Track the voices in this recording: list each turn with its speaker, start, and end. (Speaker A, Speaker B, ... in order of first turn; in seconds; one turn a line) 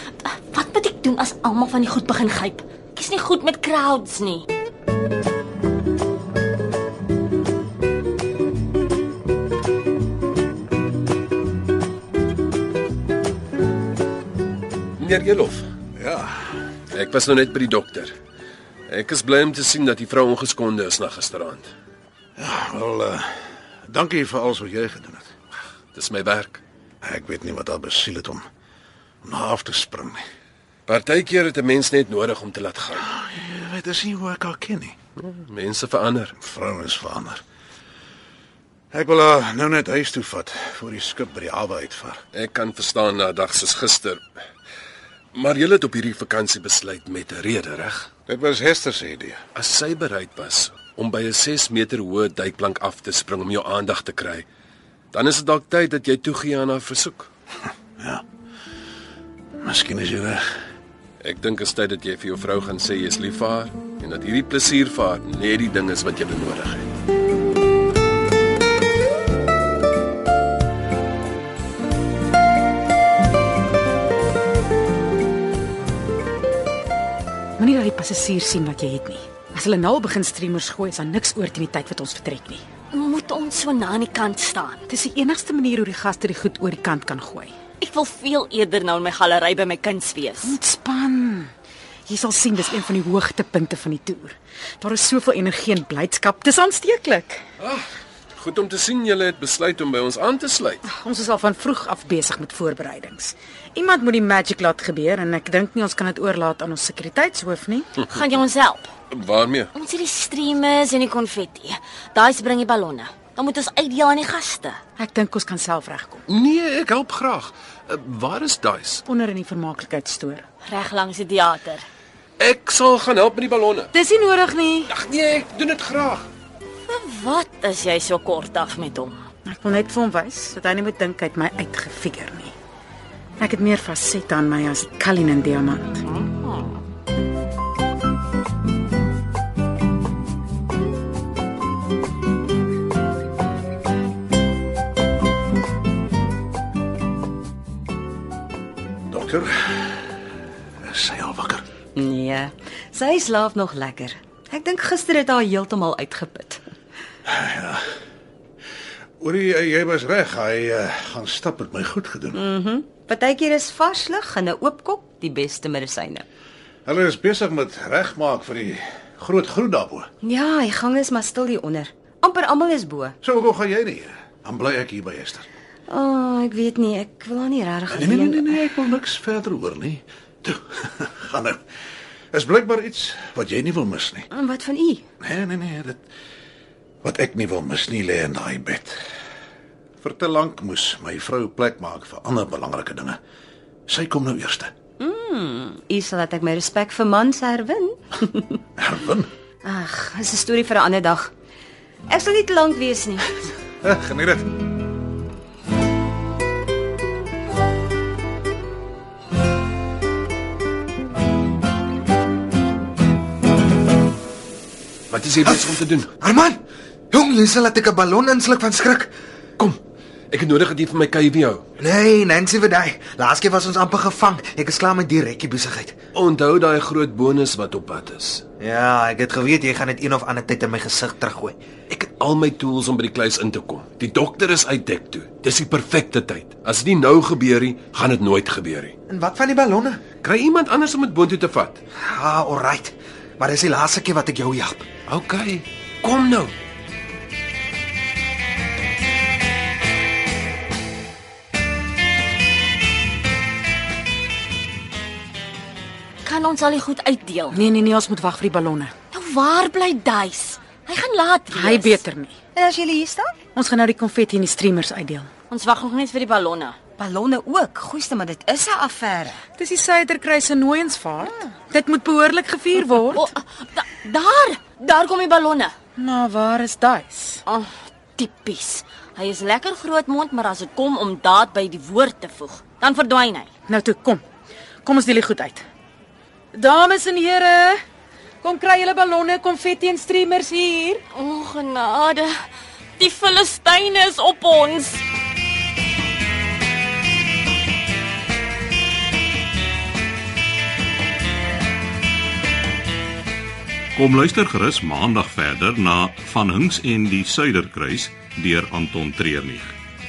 Speaker A: 0.2-4.5
Speaker B: 15.0-15.7
Speaker C: 16.0-16.3
Speaker B: 16.9-18.1
Speaker B: 18.9-21.7
Speaker C: 22.4-25.3
Speaker B: 25.9-26.6
Speaker C: 27.0-28.4
Speaker C: 29.2-30.2
Speaker B: 30.9-33.0
Speaker C: 33.1-34.9
Speaker B: 35.2-36.3
Speaker C: 36.4-37.4
Speaker C: 38.9-42.2
Speaker B: 42.3-44.2
Speaker B: 45.3-48.1
Speaker C: 48.3-49.4
Speaker B: 49.5-54.5
Speaker B: 55.1-57.3
Speaker C: 59.6-60.4
Speaker B: 61.2-66.9
Speaker D: 77.6-82.6
Speaker A: 82.9-84.8
Speaker D: 84.9-87.5
Speaker A: 87.8-90.6
Speaker D: 90.4-91.5
Speaker D: 92.1-97.4
Speaker B: 97.6-97.9
Speaker B: 98.4-100.8
Speaker D: 100.9-107.9
Speaker A: 108.0-108.9
Speaker B: 109.1-109.7
Speaker A: 109.7-114.8
Speaker D: 115.0-116.2
Speaker B: 116.3-119.0
Speaker D: 119.1-120.4
Speaker A: 120.7-121.8
Speaker B: 122.4-123.9
Speaker D: 123.9-124.9
Speaker B: 124.9-126.3
Speaker A: 126.9-129.2
Speaker D: 129.4-132.5
Speaker D: 133.4-136.1
Speaker A: 136.1-136.7
Speaker C: 149.1-150.0
Speaker C: 150.8-151.6
Speaker E: 151.9-156.7
Speaker C: 157.2-157.8
Speaker C: 159.2-162.4
Speaker E: 162.3-166.2
Speaker C: 166.8-170.1
Speaker E: 170.2-173.2
Speaker C: 173.2-175.5
Speaker E: 175.9-178.7
Speaker C: 177.9-181.6
Speaker C: 182.3-184.3
Speaker E: 184.3-185.1
Speaker C: 185.2-186.0
Speaker C: 187.0-189.0
Speaker C: 190.0-193.2
Speaker C: 193.9-194.7
Speaker E: 195.0-198.6
Speaker C: 198.8-199.3
Speaker E: 199.6-201.3
Speaker E: 202.1-203.4
Speaker C: 203.8-204.5
Speaker B: 215.1-216.1
Speaker F: 215.4-216.6
Speaker F: 217.1-219.1
Speaker B: 220.3-221.6
Speaker F: 221.8-225.9
Speaker B: 226.1-228.4
Speaker F: 228.6-231.6
Speaker B: 231.9-238.9
Speaker F: 239.1-240.0
Speaker B: 240.2-241.8
Speaker F: 242.0-244.8
Speaker B: 245.1-246.5
Speaker A: 256.2-257.6
Speaker D: 257.5-258.9
Speaker A: 259.1-262.0
Speaker D: 261.5-262.3
Speaker E: 262.6-263.4
Speaker D: 263.5-265.3
Speaker A: 265.5-266.8
Speaker E: 267.0-269.4
Speaker D: 269.6-273.3
Speaker A: 273.1-275.7
Speaker D: 276.0-277.4
Speaker A: 277.5-283.5
Speaker D: 283.7-284.2
Speaker D: 284.8-285.6
Speaker D: 286.5-287.8
Speaker D: 288.4-291.0
Speaker A: 291.1-292.3
Speaker A: 293.0-295.0
Speaker G: 303.9-309.7